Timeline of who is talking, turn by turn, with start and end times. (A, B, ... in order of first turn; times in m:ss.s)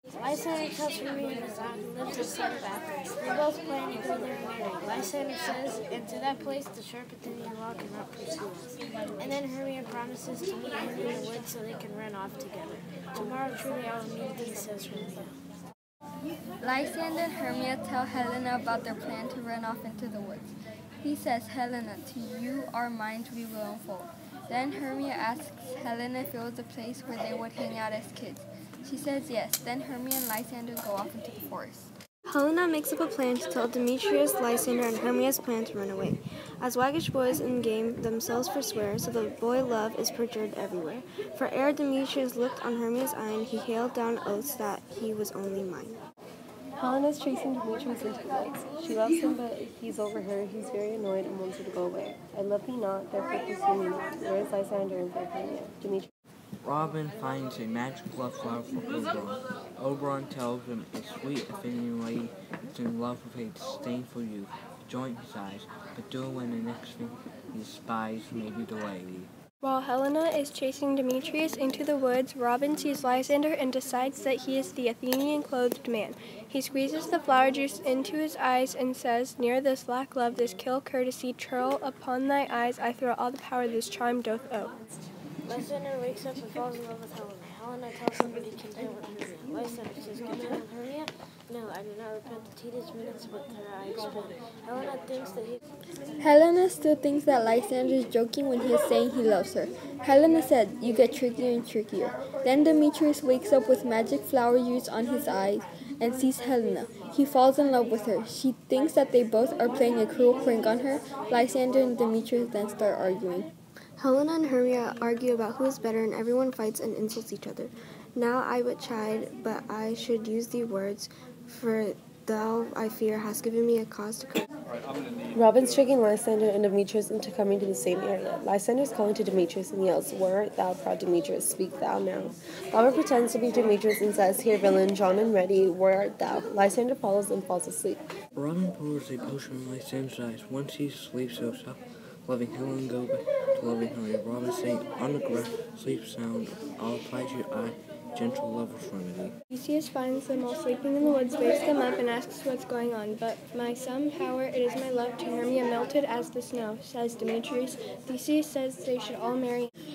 0:00.2-0:15.4 A
0:16.6-0:31.9 B
0:32.3-0:46.0 C
0:46.8-0:56.1 D
0:56.6-1:09.3 E
1:09.6-1:24.8 F
1:25.4-1:35.6 A
1:36.2-1:53.5 B
1:54.0-2:04.4 C
2:05.3-2:18.0 D
2:18.4-2:29.3 E
2:29.5-2:39.7 F